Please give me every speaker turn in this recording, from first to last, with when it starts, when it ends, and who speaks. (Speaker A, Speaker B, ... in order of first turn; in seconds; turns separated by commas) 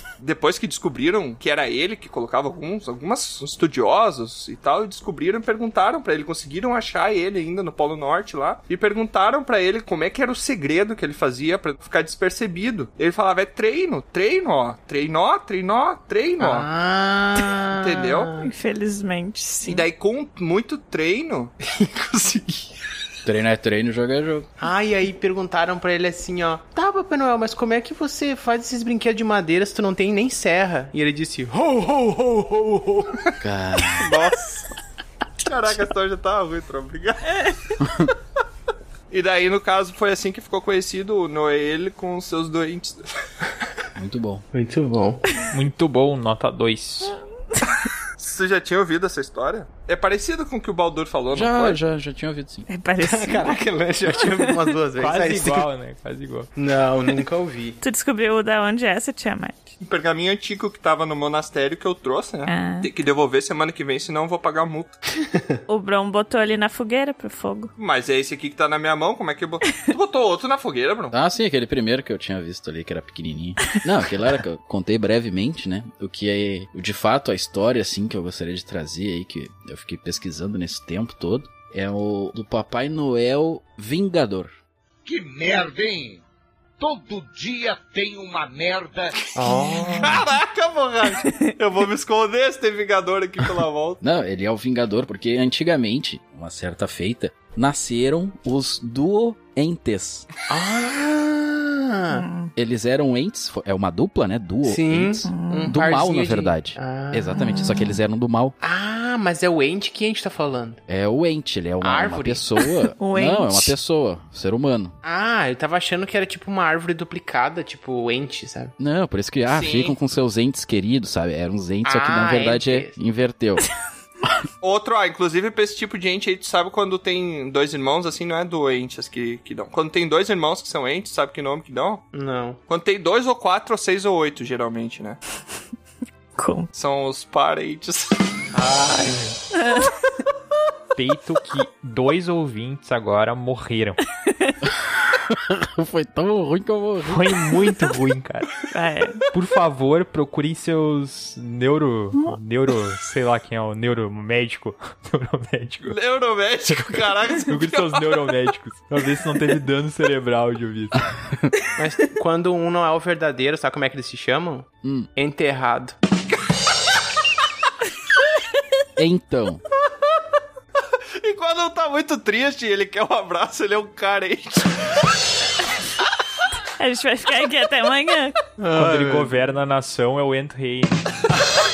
Speaker A: 0.2-16.7, Speaker B: 16.4-18.5, Speaker A: 17.8-18.3, Speaker C: 18.4-19.9, Speaker A: 19.6-22.6, Speaker D: 23.2-24.5, Speaker B: 24.6-33.2, Speaker D: 33.4-34.1, Speaker A: 34.0-34.7, Speaker A: 35.4-37.4, Speaker A: 39.1-43.1, Speaker D: 44.0-44.5, Speaker B: 44.5-45.3, Speaker E: 45.4-47.1, Speaker A: 48.2-51.8, Speaker D: 51.3-52.7, Speaker C: 52.7-53.6, Speaker B: 53.0-55.7, Speaker E: 55.0-56.5, Speaker B: 56.6-57.8, Speaker C: 57.8-59.7, Speaker A: 59.8-65.0, Speaker C: 62.5-62.9, Speaker C: 65.7-67.7, Speaker A: 67.8-71.1, Speaker D: 71.1-84.5, Speaker F: 85.0-86.2, Speaker F: 86.8-89.2, Speaker B: 89.3-90.3, Speaker A: 89.4-94.0, Speaker D: 94.0-100.3, Speaker B: 100.5-102.3, Speaker C: 102.1-102.5, Speaker D: 102.6-108.6, Speaker B: 104.7-107.6, Speaker C: 105.2-105.7, Speaker C: 107.4-107.9, Speaker B: 108.6-110.8, Speaker D: 110.9-115.0, Speaker B: 111.8-112.5, Speaker C: 113.0-113.7, Speaker B: 115.0-118.8, Speaker D: 118.8-123.7, Speaker A: 119.5-120.0, Speaker B: 121.8-122.9, Speaker A: 124.6-132.1, Speaker B: 132.1-132.6, Speaker A: 132.7-135.2, Speaker C: 136.4-136.7, Speaker A: 136.7-138.2, Speaker B: 138.5-139.4, Speaker C: 139.6-139.9, Speaker E: 140.9-144.0, Speaker C: 144.2-144.6, Speaker D: 145.0-147.6, Speaker E: 147.0-148.5, Speaker C: 148.7-149.2, Speaker E: 149.3-156.0, Speaker A: 155.8-158.4, Speaker E: 156.7-161.2, Speaker B: 161.8-166.0, Speaker D: 164.8-165.1, Speaker D: 169.0-169.6, Speaker A: 171.2-174.9, Speaker C: 176.8-178.4, Speaker B: 178.6-179.3, Speaker E: 178.7-181.0